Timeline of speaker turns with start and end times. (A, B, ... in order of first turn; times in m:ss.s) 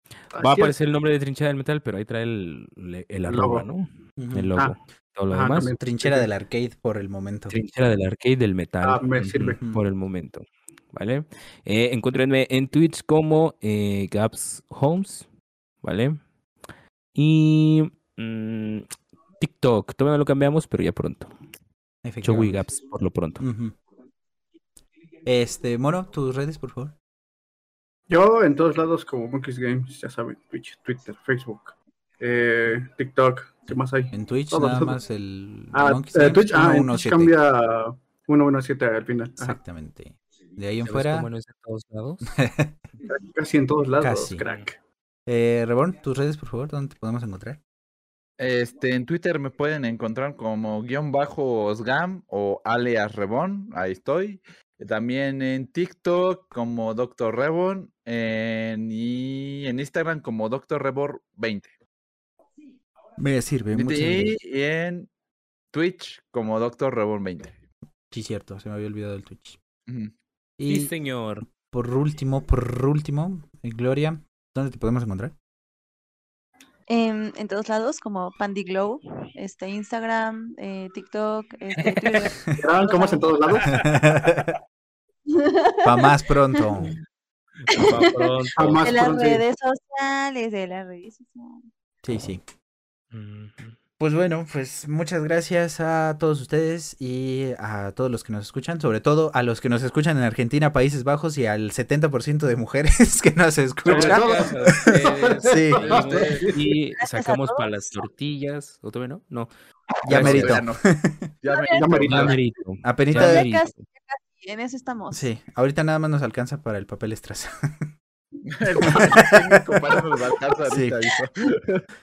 0:00.3-0:00.7 A
0:00.3-0:05.7 B
0:03.2-0:03.6 A
0:04.2-0:04.5 C
0:05.3-0:06.3 A
0:05.8-0:07.6 C
0:07.5-0:15.3 B
0:08.8-0:09.6 A
0:15.8-0:16.2 B
0:17.1-0:18.9 B
0:19.4-0:21.3 B
0:22.0-0:22.6 C
0:22.2-0:23.4 B
0:23.4-0:23.7 C
0:25.2-0:26.9 C
0:28.1-0:35.0 A
0:34.1-0:37.3 C
0:35.7-0:39.6 A
0:39.4-0:41.3 C
0:40.8-0:42.3 B
0:42.3-0:42.8 C
0:43.0-0:44.8 A
0:44.0-0:44.4 C
0:45.3-0:47.6 C
0:48.4-1:01.7 D
1:03.2-1:04.3 C
1:03.8-1:05.1 D
1:05.7-1:07.5 D
1:08.1-1:09.6 C
1:09.9-1:10.1 D
1:10.6-1:10.9 C
1:10.7-1:11.4 B
1:11.7-1:15.3 C
1:16.9-1:23.6 E
1:21.7-1:22.3 B
1:22.6-1:23.8 A
1:23.7-1:24.5 C
1:25.3-1:26.6 E
1:25.8-1:26.9 C
1:27.6-1:29.0 B
1:27.7-1:28.2 E
1:28.5-1:29.4 A
1:28.8-1:31.6 E
1:32.0-1:32.4 C
1:33.1-1:33.8 B
1:34.0-1:44.3 C
1:43.8-1:46.7 A
1:43.9-1:49.5 B
1:45.4-1:45.9 C
1:45.8-1:46.5 D
1:47.0-1:47.7 E
1:50.0-1:50.8 D
1:50.0-1:51.3 C
1:50.1-1:50.6 B
1:51.4-1:52.4 D
1:51.7-1:52.4 A
1:52.0-1:53.8 B
1:52.8-1:53.4 C
1:53.1-1:55.3 E
1:55.1-1:57.9 C
1:58.4-2:01.8 D
1:58.9-1:59.8 C
2:00.6-2:01.0 C